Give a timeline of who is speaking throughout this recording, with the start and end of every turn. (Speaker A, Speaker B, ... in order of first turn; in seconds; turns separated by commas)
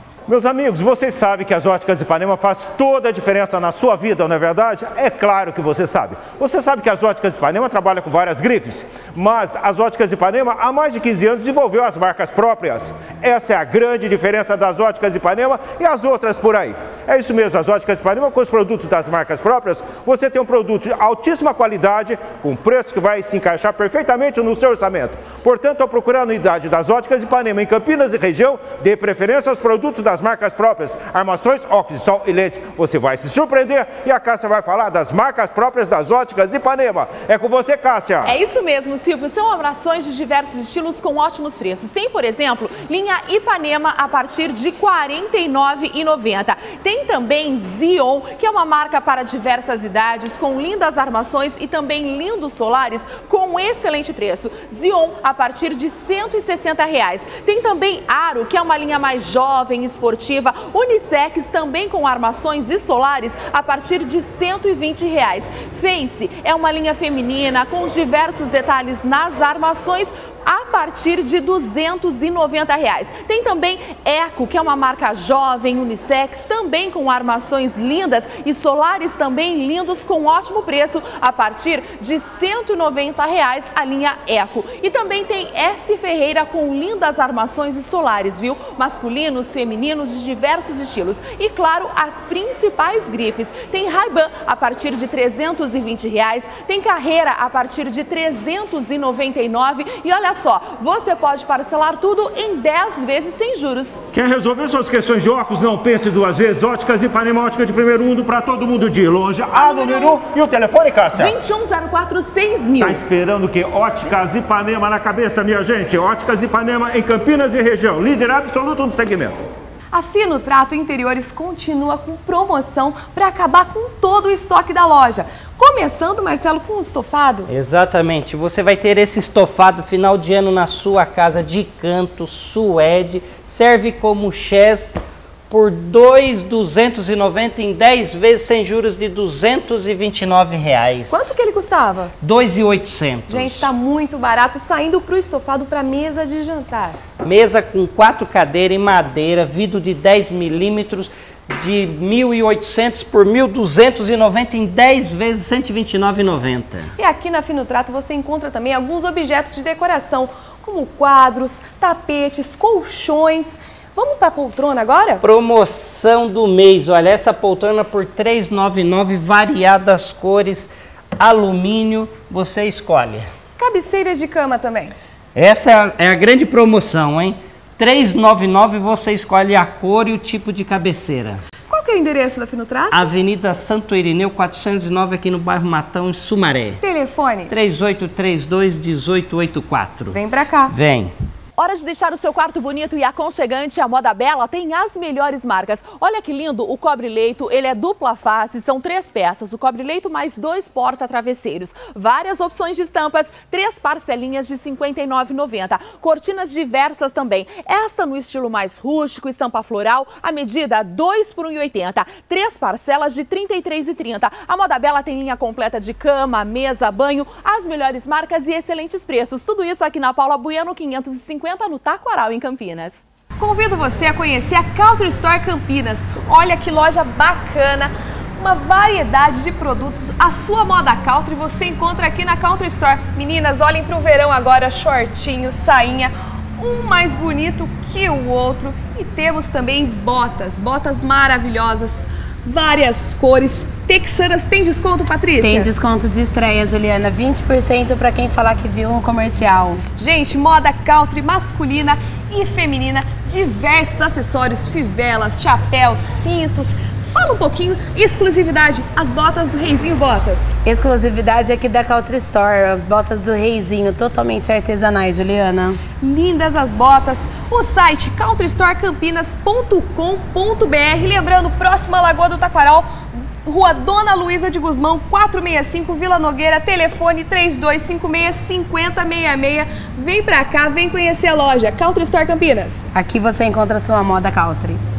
Speaker A: 0.3-38.4, Speaker B: 38.2-104.0, Speaker A: 104.1-111.4, Speaker B: 109.5-110.2, Speaker B: 111.1-113.0, Speaker A: 112.8-119.5, Speaker C: 119.9-127.5, Speaker D: 127.5-134.9, Speaker D: 135.5-141.4, Speaker C: 141.1-142.1, Speaker D: 142.2-143.7, Speaker C: 143.3-147.0, Speaker D: 147.2-156.9, Speaker C: 157.0-165.2, Speaker D: 165.2-173.3, Speaker C: 173.6-174.9, Speaker D: 175.3-181.4, Speaker C: 181.7-183.1, Speaker D: 182.9-186.8, Speaker C: 186.8-187.5, Speaker D: 187.5-190.2, Speaker C: 190.1-190.7, Speaker D: 190.7-191.1, Speaker B: 191.6-223.0, Speaker C: 223.4-245.7, Speaker E: 245.4-249.8, Speaker C: 250.0-260.5, Speaker E: 260.6-265.8, Speaker C: 266.0-282.8, Speaker E: 282.9-284.8